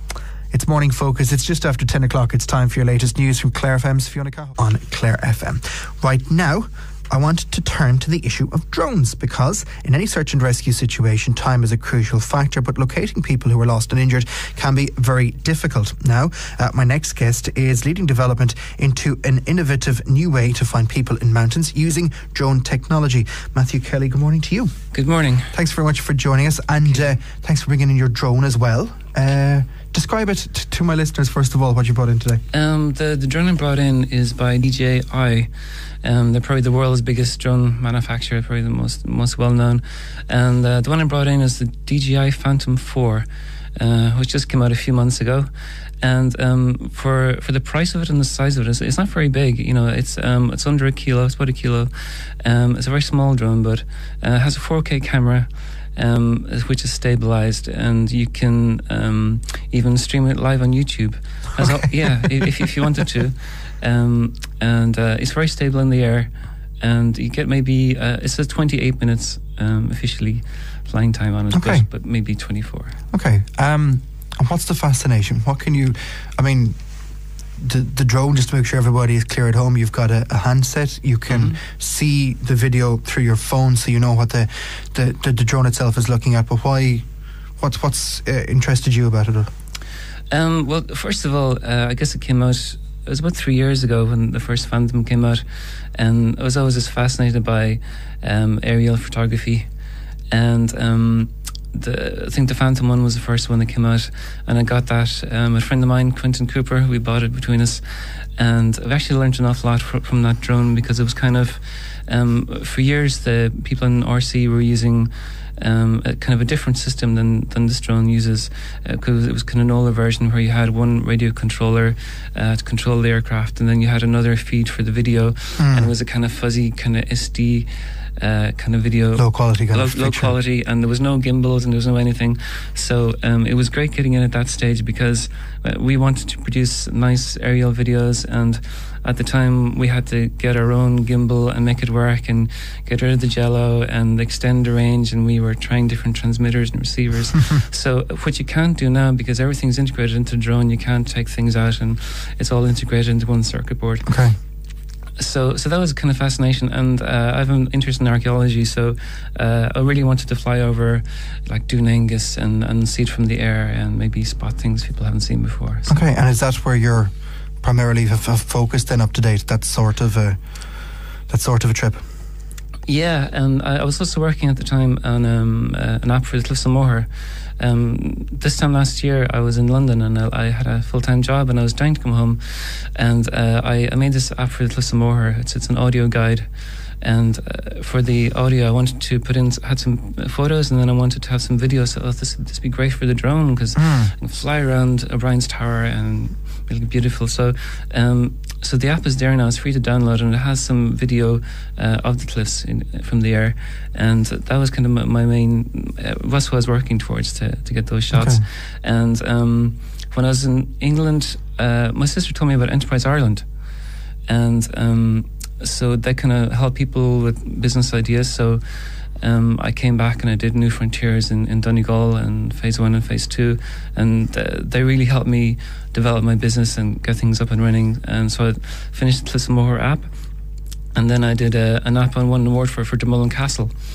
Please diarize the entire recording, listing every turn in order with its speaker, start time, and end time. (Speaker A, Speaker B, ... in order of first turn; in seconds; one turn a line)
Speaker A: 0.5-24.8
Speaker B: 24.9-25.5
Speaker A: 25.5-32.4
Speaker B: 32.5-35.5
Speaker B: 36.0-45.5
Speaker B: 46.0-73.0
Speaker A: 61.6-62.1
Speaker A: 71.5-71.8
Speaker A: 73.1-76.8
Speaker A: 77.6-87.1
Speaker B: 81.3-81.6
Speaker A: 87.6-89.5
Speaker B: 90.3-99.7
Speaker B: 100.3-154.1
Speaker A: 125.6-125.9
Speaker A: 129.2-130.3
Speaker A: 154.1-154.4
Speaker B: 155.2-166.0
Speaker A: 165.9-170.4
Speaker A: 171.3-172.0
Speaker B: 172.9-186.5
Speaker B: 187.0-213.4
Speaker A: 193.8-194.1
Speaker A: 208.1-208.4
Speaker B: 214.3-230.1
Speaker B: 230.9-233.7